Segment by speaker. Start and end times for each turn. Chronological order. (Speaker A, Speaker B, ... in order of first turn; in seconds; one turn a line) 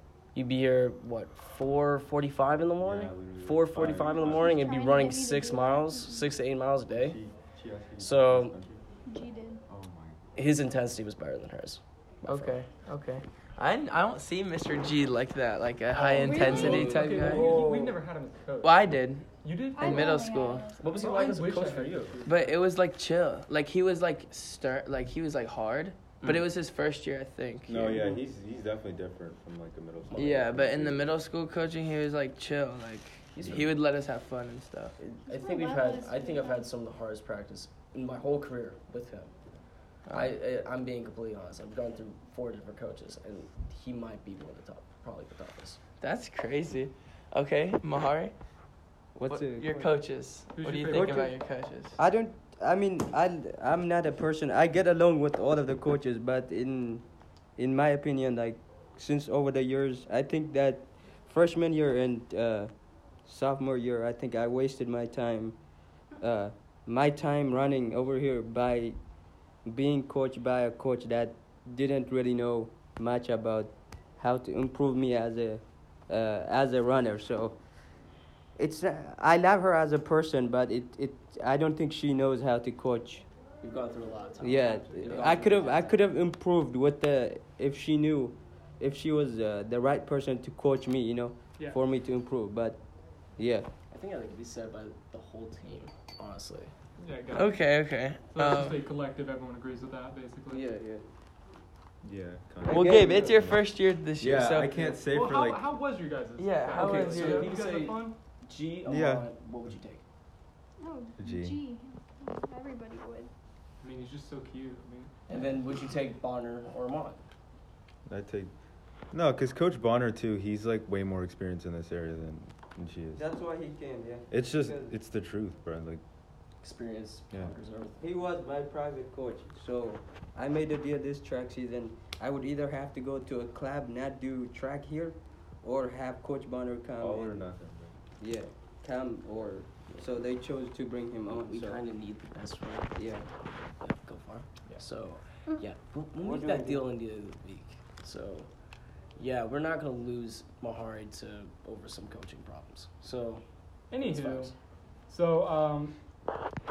Speaker A: 0.3-7.2
Speaker B: 2.8-4.8
Speaker C: 4.2-6.3
Speaker B: 6.9-8.8
Speaker A: 8.0-8.6
Speaker C: 9.1-9.6
Speaker B: 9.7-10.3
Speaker A: 10.4-12.6
Speaker D: 12.3-17.6
Speaker A: 15.9-17.7
Speaker C: 16.2-16.9
Speaker E: 16.3-18.8
Speaker F: 17.2-17.9
Speaker D: 18.6-19.3
Speaker E: 19.4-20.2
Speaker C: 19.8-21.1
Speaker D: 19.8-20.7
Speaker A: 20.8-22.3
Speaker E: 20.9-22.6
Speaker D: 22.2-28.0
Speaker B: 27.7-31.1
Speaker A: 30.1-30.6
Speaker D: 30.1-35.0
Speaker A: 33.4-33.7
Speaker B: 33.4-33.7
Speaker A: 35.0-39.3
Speaker C: 35.3-36.7
Speaker D: 40.1-40.3
Speaker A: 40.1-45.8
Speaker D: 46.0-48.3
Speaker F: 49.1-49.8
Speaker D: 49.3-52.0
Speaker E: 50.5-51.3
Speaker F: 50.9-51.3
Speaker F: 52.0-57.0
Speaker F: 57.6-62.7
Speaker F: 63.2-65.6
Speaker F: 66.2-69.0
Speaker F: 69.7-77.6
Speaker F: 78.6-83.3
Speaker A: 83.6-86.0
Speaker F: 84.4-92.8
Speaker E: 84.5-85.6
Speaker F: 93.4-93.7
Speaker A: 93.9-96.7
Speaker E: 97.0-97.7
Speaker D: 97.3-98.8
Speaker E: 98.3-100.8
Speaker F: 100.5-101.0
Speaker B: 102.0-103.7
Speaker F: 102.7-103.3
Speaker D: 102.7-104.9
Speaker B: 104.2-105.7
Speaker E: 104.9-108.2
Speaker D: 106.4-107.5
Speaker A: 106.8-110.0
Speaker B: 108.8-109.3
Speaker C: 110.8-113.3
Speaker B: 111.2-111.6
Speaker E: 113.8-115.1
Speaker A: 115.3-117.2
Speaker B: 118.1-118.5
Speaker B: 119.1-123.2
Speaker F: 123.2-124.9
Speaker B: 124.3-126.0
Speaker A: 126.6-128.0
Speaker F: 128.0-137.4
Speaker B: 137.0-137.9
Speaker F: 138.2-141.8
Speaker A: 141.4-148.5
Speaker F: 142.9-143.2
Speaker F: 146.2-146.9
Speaker A: 149.2-153.4
Speaker E: 153.9-154.5
Speaker A: 154.0-154.5
Speaker E: 155.1-156.0